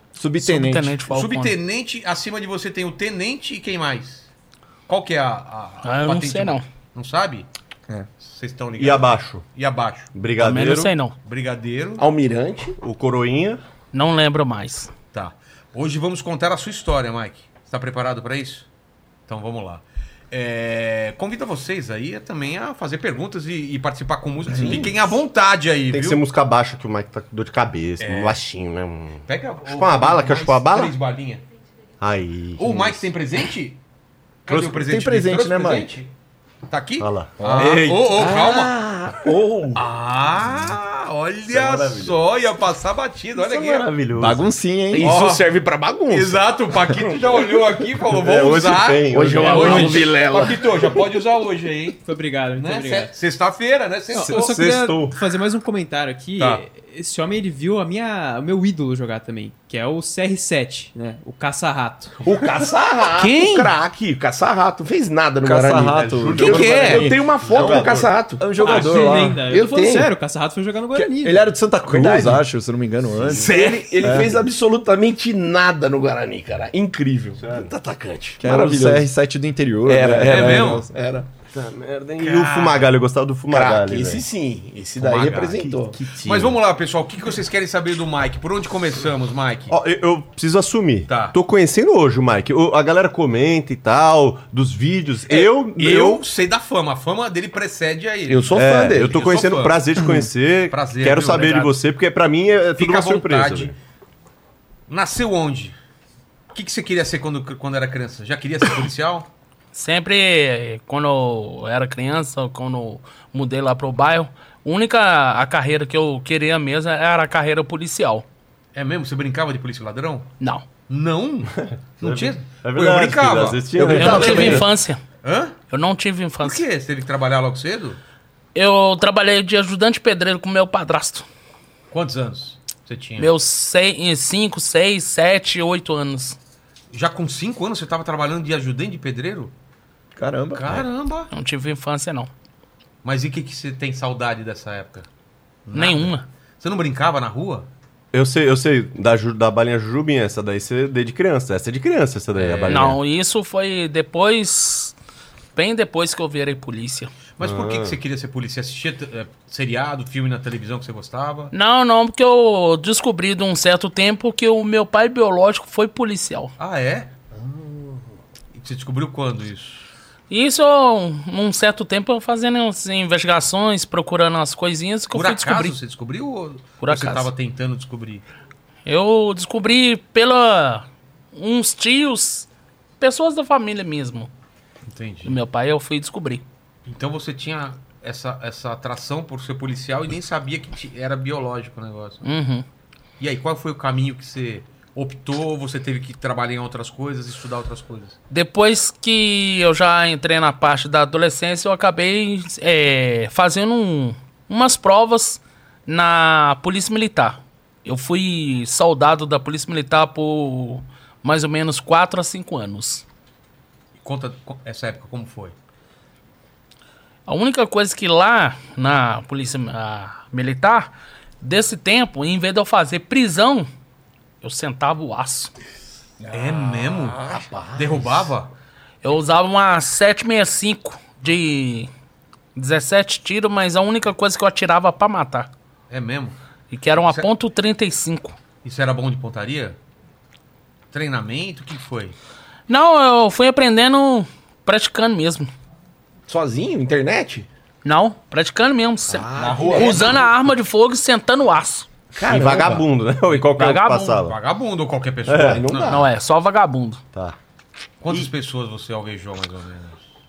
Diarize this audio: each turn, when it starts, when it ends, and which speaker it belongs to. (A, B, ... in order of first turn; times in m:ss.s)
0:00.2-0:01.0 A
0:00.4-0:01.6 B
0:01.1-0:04.3 C
0:04.9-0:07.5 C
0:05.8-0:06.6 B
0:08.2-0:10.1 C
0:08.8-0:09.4 D
0:10.1-0:11.0 D
0:10.4-0:11.1 B
0:11.2-0:12.1 C
0:12.0-0:12.8 E
0:12.8-0:13.6 D
0:13.9-0:14.9 B
0:15.1-0:18.7 C
0:19.3-0:26.2 C
0:24.6-0:24.9 D
0:25.9-0:31.0 D
0:28.0-0:28.4 C
0:29.3-0:31.4 C
0:32.0-0:33.1 D
0:32.6-0:33.8 C
0:34.5-0:36.1 C
0:34.5-0:35.9 A
0:36.7-0:38.8 C
0:37.0-0:37.5 D
0:37.4-0:39.8 E
0:37.4-0:38.4 A
0:39.8-0:43.9 C
0:41.5-0:42.2 D
0:43.4-0:44.4 D
0:44.1-0:45.1 A
0:44.9-0:46.5 E
0:45.0-0:45.5 C
0:46.1-0:52.0 C
0:48.1-0:49.9 D
0:49.1-0:51.0 E
0:49.4-0:50.0 F
0:52.0-0:53.1 F
0:52.6-0:54.6 C
0:54.1-1:02.2 F
0:54.3-0:55.2 D
1:02.2-1:08.9 E
1:03.1-1:03.7 C
1:05.4-1:09.4 A
1:06.0-1:08.1 D
1:06.4-1:07.1 C
1:08.6-1:11.5 F
1:09.5-1:10.1 E
1:10.9-1:14.4 A
1:11.9-1:12.4 E
1:13.3-1:19.1 E
1:13.4-1:14.3 C
1:17.4-1:17.7 D
1:18.4-1:20.9 A
1:19.9-1:21.3 E
1:20.2-1:20.8 C
1:21.5-1:24.2 D
1:22.2-1:22.9 C
1:23.5-1:26.0 E
1:25.0-1:25.5 C
1:25.0-1:26.5 D
1:26.1-1:29.7 C
1:29.7-1:36.2 D
1:31.1-1:31.4 C
1:35.3-1:39.8 C
1:38.3-1:39.2 E
1:38.5-1:43.8 D
1:40.7-1:41.7 C
1:42.8-1:43.7 C
1:44.9-1:45.8 C
1:46.5-1:49.3 C
1:49.7-1:58.3 B
1:58.7-2:00.3 C
2:00.4-2:00.7 B
2:00.9-2:04.7 C
2:02.0-2:04.7 D
2:03.8-2:04.6 A
2:03.9-2:05.0 B
2:05.2-2:05.6 C
2:05.7-2:06.6 B
2:06.4-2:08.0 C
2:08.6-2:11.3 B
2:11.9-2:13.3 C
2:13.2-2:16.4 B
2:16.9-2:19.5 C
2:20.2-2:20.8 A
2:20.6-2:21.3 C
2:21.3-2:22.3 B
2:23.0-2:25.1 C
2:25.7-2:27.7 C
2:25.7-2:26.2 B
2:28.1-2:33.0 D
2:32.4-2:33.0 C
2:32.7-2:34.9 B
2:35.6-2:37.1 B
2:37.4-2:41.5 C
2:37.4-2:38.0 D
2:41.5-2:46.5 B
2:46.6-2:47.1 C
2:48.5-2:49.9 C
2:50.3-2:55.8 B
2:55.1-2:58.2 C
2:56.8-2:57.3 B
2:58.9-3:02.5 B
3:03.0-3:04.3 B
3:04.9-3:05.4 C
3:05.2-3:06.4 B
3:06.9-3:12.2 C
3:12.2-3:12.6 B
3:13.2-3:18.2 C
3:18.3-3:33.0 B
3:34.0-3:35.6 C
3:37.3-3:43.7 B
3:44.4-3:45.5 B
3:46.2-3:48.3 E
3:46.3-3:48.5 C
3:49.0-3:51.9 B
3:52.6-3:55.5 B
3:55.9-3:56.4 C
3:56.7-3:58.4 B
3:57.0-3:57.3 C
3:58.6-3:59.8 C
4:00.9-4:02.2 C
4:02.7-4:05.5 B
4:06.3-4:07.5 E
4:07.8-4:11.9 B
4:09.1-4:10.2 C
4:09.4-4:10.2 A
4:09.4-4:10.0 E
4:12.2-4:12.9 E
4:12.2-4:14.4 D
4:13.4-4:14.3 B
4:14.2-4:16.0 C
4:15.3-4:15.6 D
4:15.3-4:16.1 E
4:15.9-4:17.0 B
4:18.0-4:20.0 C